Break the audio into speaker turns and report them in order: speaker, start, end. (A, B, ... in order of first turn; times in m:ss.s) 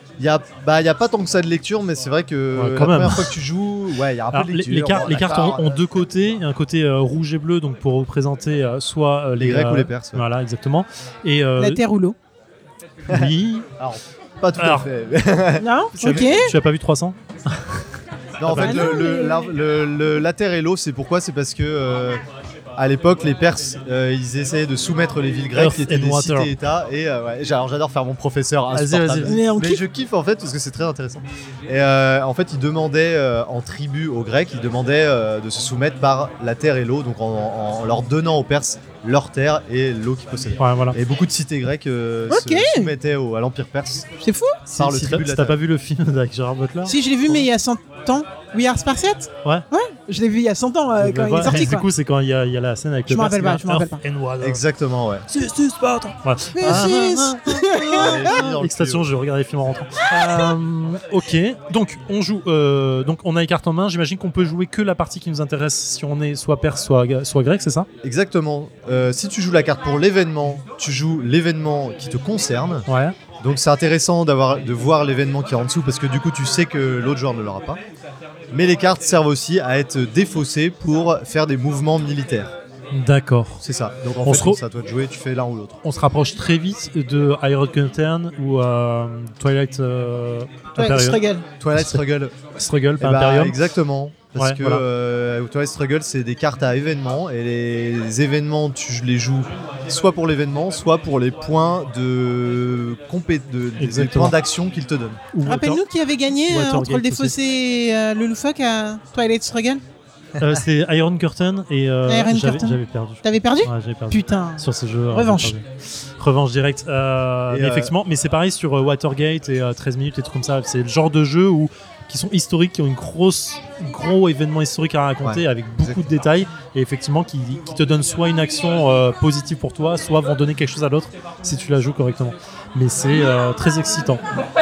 0:00.2-0:05.9 A
0:02.5-0:03.4 B
0:04.3-0:11.8 B
0:09.4-0:10.2 A
0:11.6-0:12.2 C
0:13.1-0:13.7 B
0:13.1-0:16.3 A
0:14.6-0:14.9 B
0:15.6-0:16.5 C
0:16.0-0:17.8 B
0:18.4-0:22.2 A
0:18.4-0:18.8 B
0:18.6-0:19.4 C
0:22.8-0:44.0 A
0:25.5-0:26.5 B
0:28.7-0:29.4 B
0:29.2-0:29.8 C
0:40.6-0:41.0 B
0:42.3-0:42.9 C
0:44.2-0:44.6 C
0:44.6-0:47.5 B
0:44.7-0:45.6 A
0:46.8-0:51.9 C
0:51.0-0:54.6 B
0:53.1-0:54.0 C
0:54.4-0:55.2 A
0:55.3-1:07.9 B
0:56.6-0:58.4 C
0:58.0-0:59.1 A
1:00.1-1:00.5 C
1:08.0-1:12.8 A
1:12.8-1:13.2 B
1:13.4-1:17.8 A
1:18.5-1:22.5 A
1:22.9-1:23.6 B
1:23.6-1:25.8 A
1:24.2-1:24.6 B
1:25.8-1:31.2 B
1:30.8-1:31.5 C
1:31.6-1:32.3 A
1:31.7-1:33.6 B
1:33.0-1:45.2 A
1:34.3-1:34.8 B
1:43.8-1:44.4 B
1:45.3-1:47.4 B
1:45.4-1:49.8 C
1:50.4-1:55.6 B
1:52.0-1:55.5 C
1:56.2-2:14.2 B
1:57.5-1:57.9 A
2:05.2-2:06.1 A